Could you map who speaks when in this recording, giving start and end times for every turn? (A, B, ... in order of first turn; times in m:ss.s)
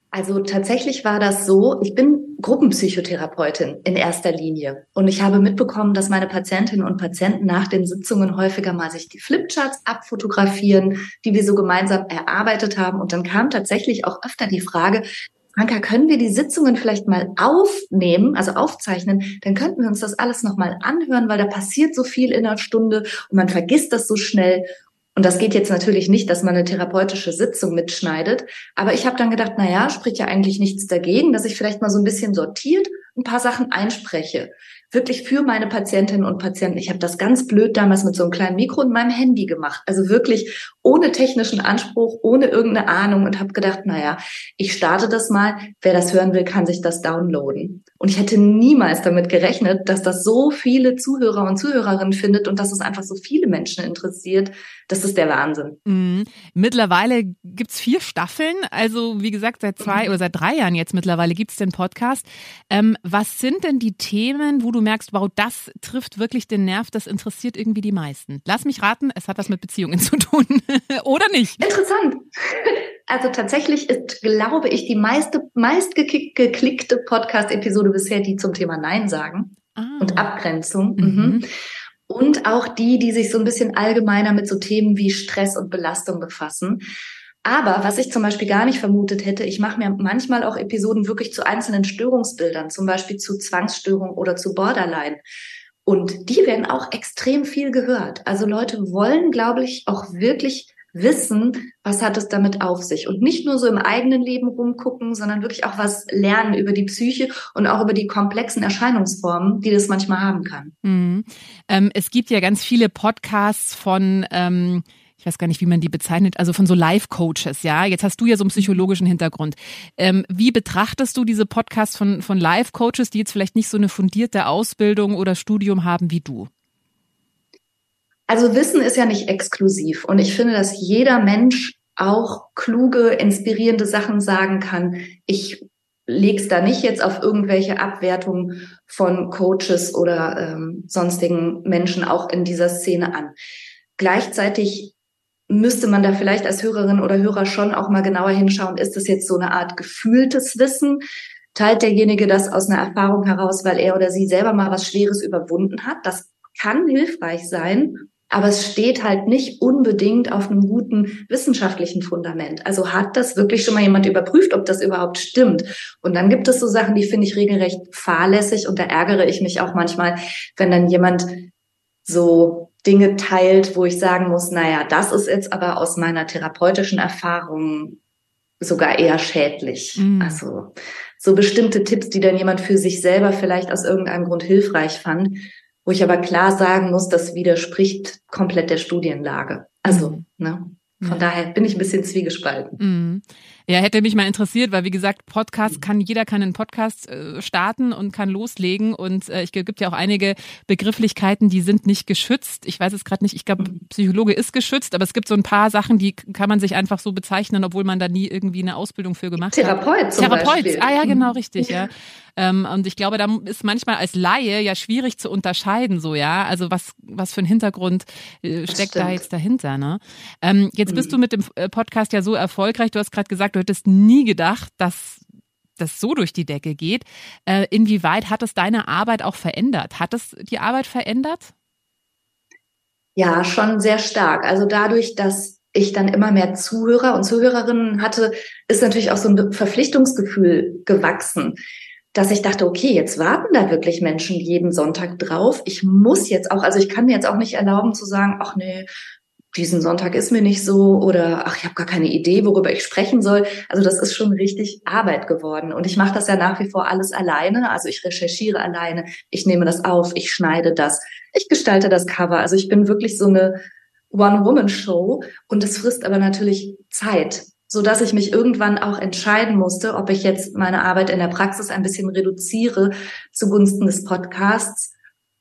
0:00.1-0:55.8 A
0:55.8-1:11.6 B
1:11.6-1:21.5 A
1:19.8-1:20.3 B
1:21.0-1:21.4 B
1:22.1-1:26.8 A
1:27.4-1:35.2 A
1:35.8-1:50.7 A
1:50.8-2:06.5 B
2:08.3-2:23.3 A
2:24.0-2:24.9 A
2:25.5-2:31.0 A
2:31.5-2:51.5 A
2:52.0-2:58.0 A
2:58.6-3:12.8 A
3:00.0-3:00.4 B
3:09.8-3:10.2 B
3:12.8-3:45.2 B
3:29.4-3:31.8 A
3:38.7-3:39.2 A
3:40.9-3:41.2 A
3:45.8-3:51.5 B
3:53.2-4:01.6 A
4:02.1-4:08.9 A
4:09.5-4:23.6 A
4:24.1-4:34.9 A